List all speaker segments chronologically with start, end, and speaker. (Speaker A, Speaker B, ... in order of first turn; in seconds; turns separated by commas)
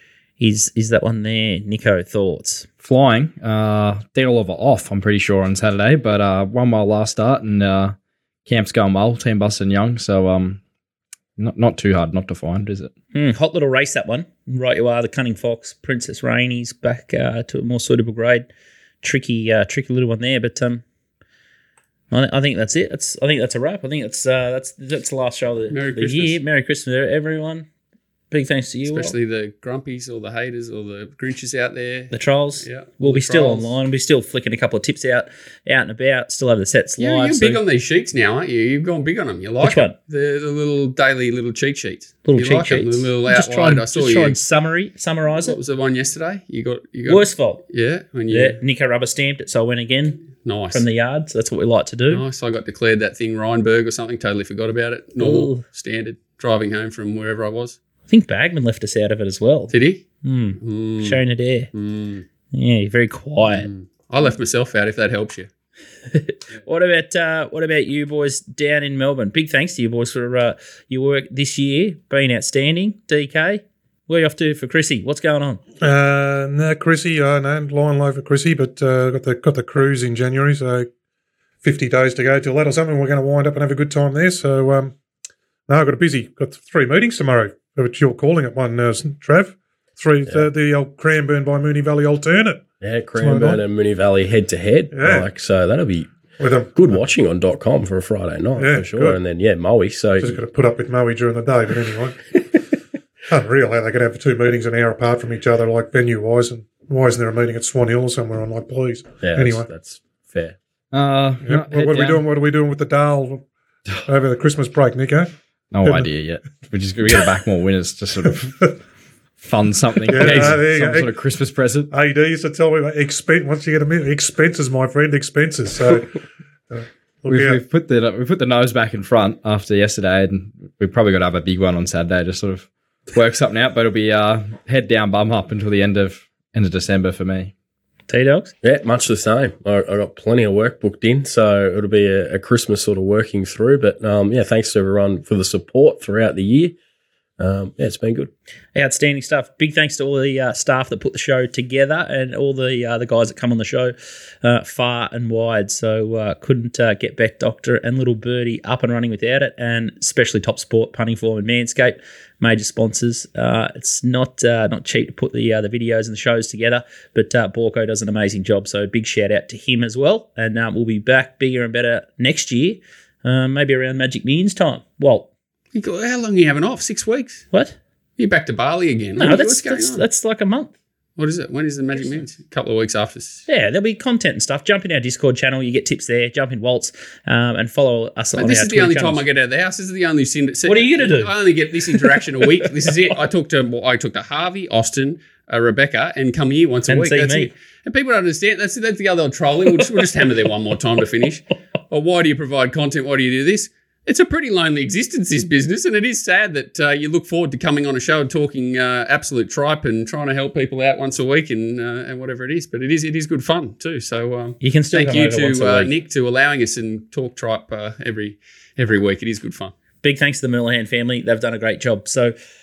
Speaker A: 0.4-2.7, Speaker B: 2.8-10.6, Speaker B: 11.4-12.9, Speaker A: 13.1-18.5, Speaker A: 19.0-20.8, Speaker A: 22.1-27.7, Speaker C: 25.7-26.4, Speaker A: 28.3-29.1, Speaker C: 28.9-33.7, Speaker A: 32.1-37.6, Speaker C: 37.0-44.4, Speaker A: 39.6-39.9, Speaker A: 42.2-45.6, Speaker C: 45.4-48.6, Speaker A: 47.1-47.6, Speaker A: 48.3-52.2, Speaker C: 50.3-50.8, Speaker C: 52.1-57.8, Speaker A: 55.2-55.6, Speaker A: 58.1-59.7, Speaker C: 59.7-60.0, Speaker A: 60.2-61.7, Speaker C: 60.6-61.2, Speaker C: 61.7-62.3, Speaker A: 62.5-63.7, Speaker C: 63.5-65.5, Speaker A: 66.1-75.6, Speaker D: 75.8-80.9, Speaker D: 81.6-85.0, Speaker D: 85.7-92.7, Speaker E: 92.8-96.2, Speaker D: 93.2-93.6, Speaker D: 94.9-95.3, Speaker D: 96.4-97.0, Speaker E: 96.7-100.4, Speaker D: 98.6-99.2, Speaker D: 100.2-102.3, Speaker D: 103.3-109.7, Speaker E: 109.2-110.6, Speaker B: 110.9-112.2, Speaker D: 111.4-113.5, Speaker D: 114.0-115.3, Speaker B: 115.7-118.7, Speaker D: 118.4-118.7, Speaker B: 119.4-121.9, Speaker D: 120.0-121.2, Speaker C: 120.2-120.6, Speaker D: 121.9-126.2, Speaker D: 126.7-127.6, Speaker B: 127.3-137.5, Speaker A: 138.1-138.5, Speaker E: 138.6-146.8, Speaker E: 147.4-148.3, Speaker A: 148.8-175.3, Speaker C: 175.7-177.4, Speaker C: 178.2-180.0, Speaker A: 179.2-180.7, Speaker C: 181.2-183.5, Speaker A: 183.5-189.2, Speaker C: 188.4-219.7, Speaker A: 190.7-191.3, Speaker A: 191.9-192.9, Speaker A: 196.9-197.5, Speaker A: 214.6-215.9, Speaker A: 220.0-222.3